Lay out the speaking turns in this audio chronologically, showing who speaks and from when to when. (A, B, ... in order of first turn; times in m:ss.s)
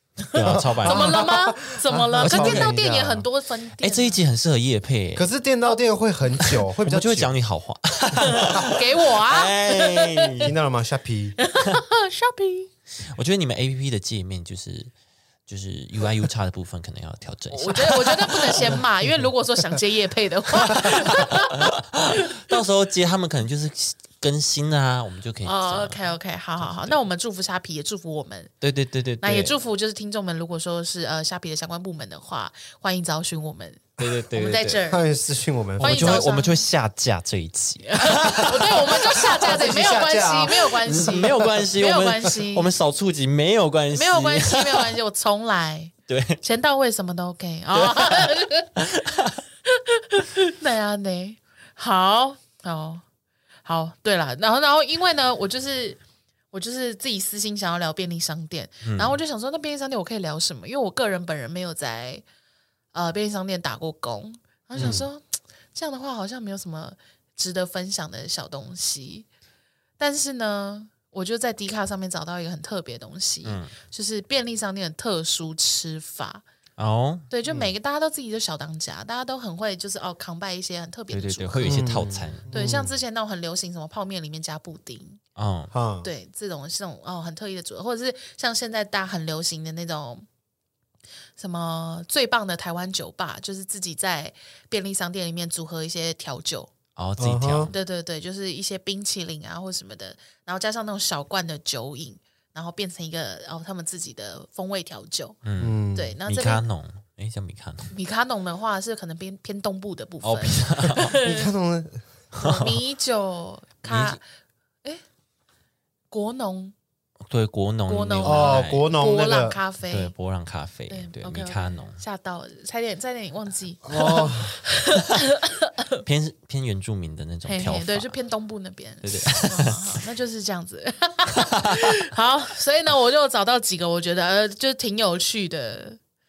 0:00.2-0:04.2 A
0:00.3-0:01.3 B
0:00.4-0:03.1 C
0:02.2-0:03.2 B
0:03.8-0:05.3 B
0:05.2-0:07.3 C
0:06.4-0:10.5 B
0:08.3-0:10.5 A
0:10.4-0:11.4 C
0:11.4-0:12.7 A
0:11.6-0:11.8 B
0:13.1-0:14.9 B
0:15.5-0:18.8 B
0:17.5-0:22.6 A
0:20.6-0:27.0 B
0:25.4-0:28.5 A
0:28.6-0:29.6 B
0:29.2-0:35.1 A
0:34.0-0:34.8 B
0:34.8-0:36.2 C
0:35.8-0:36.6 A
0:35.8-0:39.5 B
0:37.8-0:42.7 A
0:39.4-0:41.3 C
0:40.8-0:45.0 B
0:43.9-0:48.7 A
0:46.1-0:46.4 B
0:47.7-0:49.4 B
0:49.6-0:53.0 A
0:53.6-0:56.0 A
0:56.5-1:02.2 A
0:58.8-0:59.2 B
1:02.9-1:09.3 A
1:04.8-1:05.0 C
1:04.8-1:05.0 B
1:10.0-1:16.4 A
1:13.4-1:13.7 B
1:16.8-1:17.3 B
1:17.3-1:25.2 A
1:17.4-1:17.7 C
1:21.1-1:22.5 B
1:21.6-1:22.9 C
1:25.4-1:25.7 B
1:25.7-1:26.1 C
1:26.0-1:30.2 A
1:31.4-1:36.7 A
1:37.0-1:37.7 B
1:37.2-1:37.7 C
1:37.7-1:45.4 A
1:45.4-1:47.9 B
1:45.6-1:46.2 C
1:45.9-1:46.6 A
1:47.9-1:51.5 A
1:50.2-1:51.2 B
1:51.1-1:52.0 C
1:52.3-1:52.8 B
1:52.4-1:54.2 A
1:53.9-1:54.2 B
1:56.1-1:56.7 A
1:57.3-1:58.9 B
1:57.9-2:00.1 A
1:58.2-1:59.6 C
1:59.9-2:02.0 B
2:00.9-2:06.0 A
2:03.8-2:04.6 C
2:06.0-2:08.2 B
2:07.5-2:16.0 A
2:09.0-2:10.0 B
2:11.3-2:11.9 B